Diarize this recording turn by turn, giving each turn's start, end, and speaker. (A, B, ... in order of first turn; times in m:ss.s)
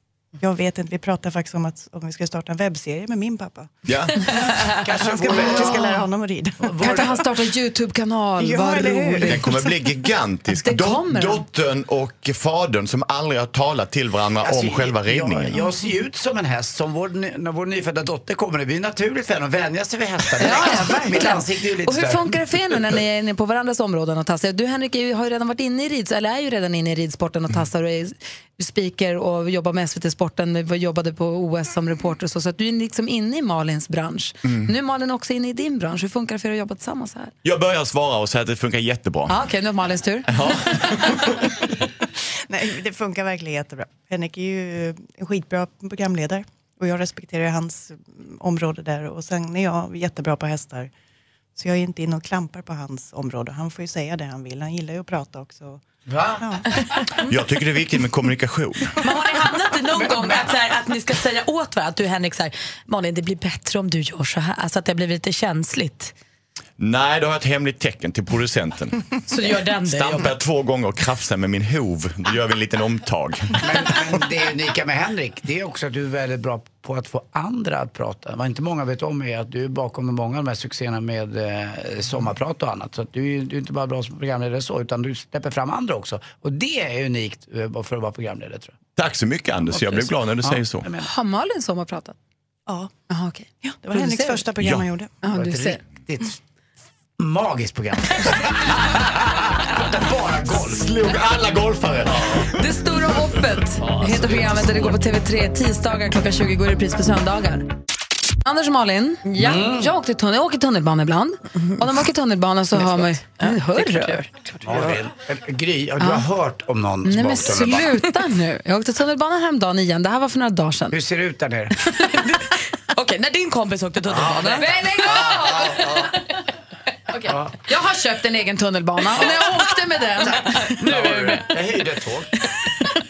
0:00.4-0:07.0 A
0:03.9-0:04.8 B
0:05.1-0:05.8 C
0:05.3-0:05.9 D
0:06.6-0:07.2 C
0:06.8-0:09.6 D
0:08.4-0:09.8 A
0:09.3-0:15.6 B
0:10.6-0:11.4 D
0:14.4-0:22.4 C
0:20.4-0:37.3 D
0:37.4-0:39.4 B
0:39.3-0:40.4 D
0:40.3-0:41.3 B
0:42.5-0:50.9 A
0:51.6-0:55.8 A
0:56.1-0:56.4 C
0:56.4-0:57.0 A
0:57.3-0:59.0 B
0:59.0-1:06.1 E
1:00.0-1:00.5 C
1:06.8-1:09.1 B
1:09.3-1:10.3 E
1:09.9-1:13.7 B
1:13.6-1:28.7 C
1:29.0-1:30.9 B
1:29.7-1:31.1 C
1:31.0-1:32.2 D
1:32.7-1:32.9 A
1:33.1-1:34.5 D
1:33.6-1:35.2 A
1:35.2-1:35.8 D
1:35.3-1:36.4 C
1:37.2-1:40.9 C
1:40.6-1:42.5 B
1:42.5-1:47.7 D
1:48.4-1:54.2 D
1:49.4-1:49.9 C
1:52.8-1:54.3 E
1:54.6-1:57.9 C
1:56.0-1:56.3 D
1:57.0-2:01.0 D
2:00.9-2:01.7 C
2:02.0-2:04.7 E
2:04.1-2:05.9 C
2:04.6-2:06.4 D
2:07.3-2:10.8 D
2:07.3-2:07.5 C
2:10.2-2:12.3 C
2:10.7-2:11.3 E